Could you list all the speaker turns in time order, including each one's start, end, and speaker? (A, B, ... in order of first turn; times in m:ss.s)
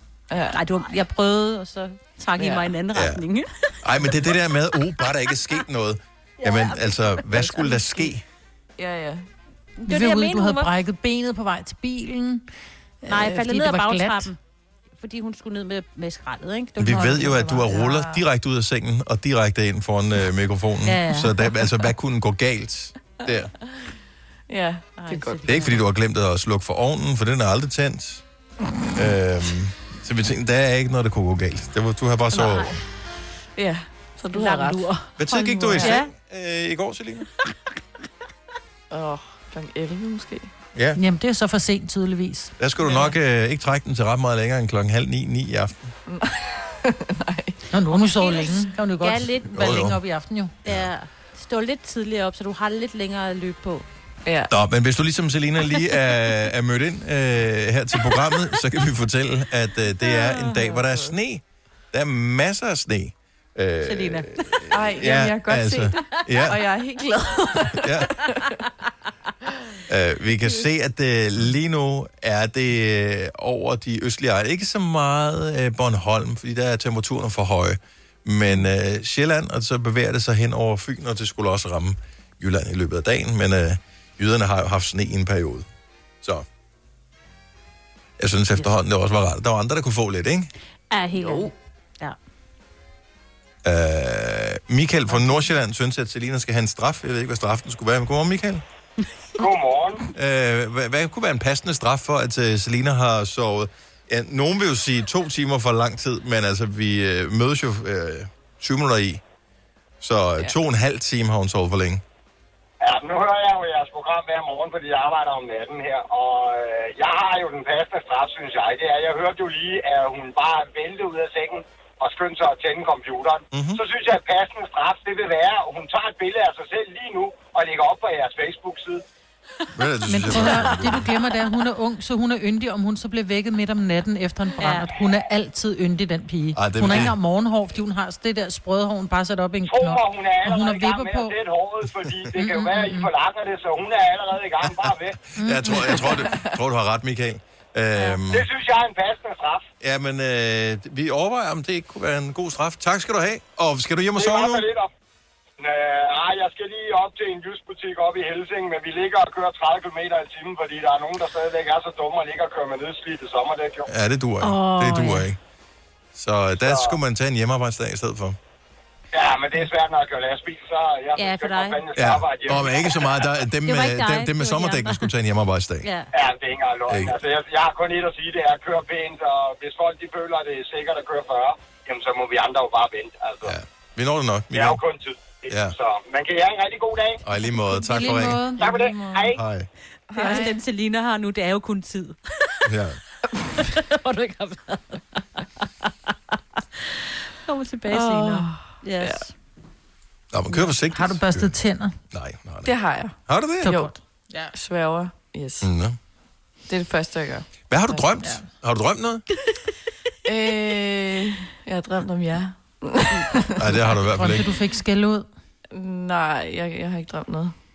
0:00.3-0:00.6 A
0:00.5-0:04.3 B
0:02.4-0:02.7 A
0:02.9-0:03.2 C
0:03.8-0:08.2 C
0:06.4-0:08.1 B
0:08.8-0:09.2 A
0:09.8-0:10.7 B
0:09.8-0:12.5 D
0:13.0-0:14.3 D
0:13.1-0:14.4 B
0:15.0-0:17.6 B
0:16.8-0:23.5 C
0:16.9-0:17.5 D
0:17.8-0:18.2 A
0:20.8-0:21.5 B
0:24.5-0:25.6 A
0:25.0-0:25.8 B
0:25.4-0:28.2 C
0:28.9-0:32.7 C
0:32.3-0:32.7 A
0:33.6-0:35.0 A
0:34.3-0:35.2 B
0:35.2-0:37.3 C
0:35.5-0:35.9 A
0:35.8-0:36.1 B
0:38.9-0:40.5 A
0:40.7-0:41.0 C
0:40.9-0:42.5 D
0:42.6-0:45.9 C
0:42.8-0:43.1 B
0:46.1-0:47.6 A
0:47.7-0:50.5 D
0:48.0-0:49.9 B
0:49.5-0:50.0 C
0:50.6-0:53.8 B
0:54.2-0:54.5 A
0:54.5-1:06.6 C
1:00.0-1:00.8 B
1:00.7-1:01.2 A
1:03.8-1:04.7 B
1:04.7-1:08.4 A
1:07.8-1:08.1 C
1:09.9-1:25.6 C
1:28.2-1:30.5 C
1:30.9-1:32.2 B
1:31.2-1:31.5 A
1:33.6-1:38.6 C
1:39.4-1:40.0 E
1:40.1-1:49.2 C
1:50.0-1:52.0 C
1:52.8-2:09.0 E
2:03.5-2:03.8 C
2:09.7-2:11.1 C
2:10.1-2:21.3 D
2:14.6-2:14.9 B
2:16.5-2:17.2 C
2:19.6-2:25.2 E
2:22.4-2:23.1 D
2:24.6-2:28.5 C
2:25.4-2:26.0 D
2:25.8-2:26.5 A
2:28.0-2:28.2 B
2:28.3-2:29.6 E
2:29.8-2:34.7 C
2:34.2-2:34.9 E
2:35.6-2:43.9 E
2:43.9-2:45.4 C
2:44.4-2:45.2 B
2:46.1-2:48.4 C
2:46.6-2:47.0 E
2:49.1-2:53.2 E
2:51.2-2:51.9 B
2:52.0-2:55.9 C
2:52.5-2:55.1 B
2:55.8-2:56.1 B
2:56.1-3:03.5 E
2:56.9-2:57.2 C
3:03.4-3:04.8 C
3:04.5-3:07.2 E
3:05.5-3:05.7 C
3:07.2-3:08.6 C
3:07.7-3:08.6 D
3:08.4-3:09.3 A
3:08.6-3:09.4 E
3:09.3-3:09.7 C
3:10.1-3:10.6 A
3:10.1-3:12.7 B
3:10.2-3:10.5 D
3:12.6-3:13.0 C
3:13.5-3:15.9 B
3:17.4-3:19.3 B
3:18.1-3:19.2 A
3:20.3-3:21.6 C
3:20.5-3:22.0 D
3:22.1-3:23.7 C
3:22.6-3:24.0 A
3:23.6-3:24.5 D
3:24.5-3:25.7 A
3:25.6-3:26.0 C
3:26.7-3:28.1 A
3:27.7-3:29.2 C
3:30.2-3:33.7 A
3:33.6-3:34.5 C
3:34.1-3:35.3 D
3:35.7-3:37.5 A